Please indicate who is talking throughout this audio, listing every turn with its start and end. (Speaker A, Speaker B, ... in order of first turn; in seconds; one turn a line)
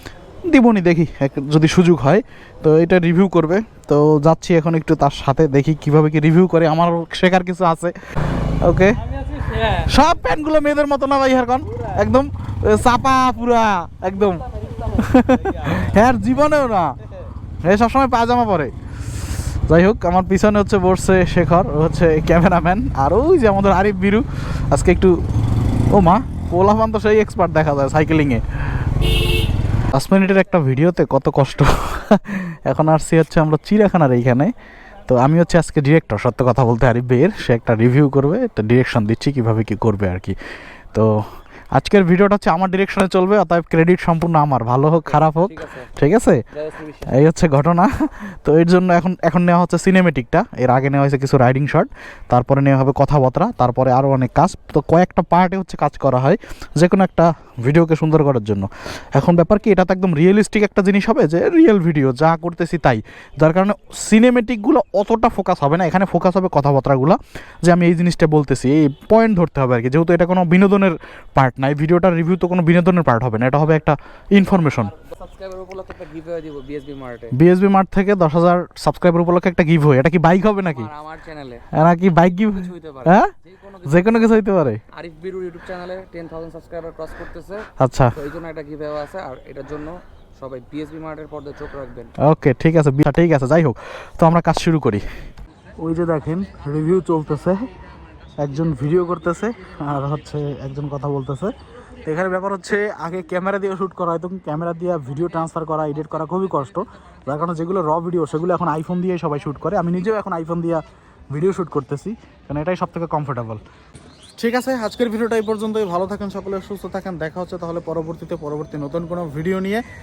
Speaker A: 0.5-7.9
Speaker A: 8.6-9.0
Speaker A: 9.8-17.0
Speaker A: 17.6-18.7
Speaker A: 19.7-25.1
Speaker A: 25.9-28.4
Speaker A: 29.9-34.5
Speaker A: 35.1-40.4
Speaker A: 41.7-46.4
Speaker B: 45.0-45.9
Speaker B: 46.5-47.1
Speaker A: 47.1-74.9
Speaker B: 75.0-77.3
Speaker A: 77.3-80.9
Speaker B: 80.5-84.4
Speaker A: 81.7-83.3
Speaker A: 83.8-84.8
Speaker B: 85.0-92.1
Speaker A: 87.8-88.2
Speaker A: 92.2-95.0
Speaker A: 95.8-97.7
Speaker A: 98.4-101.5
Speaker A: 102.0-113.6
Speaker A: 114.4-119.8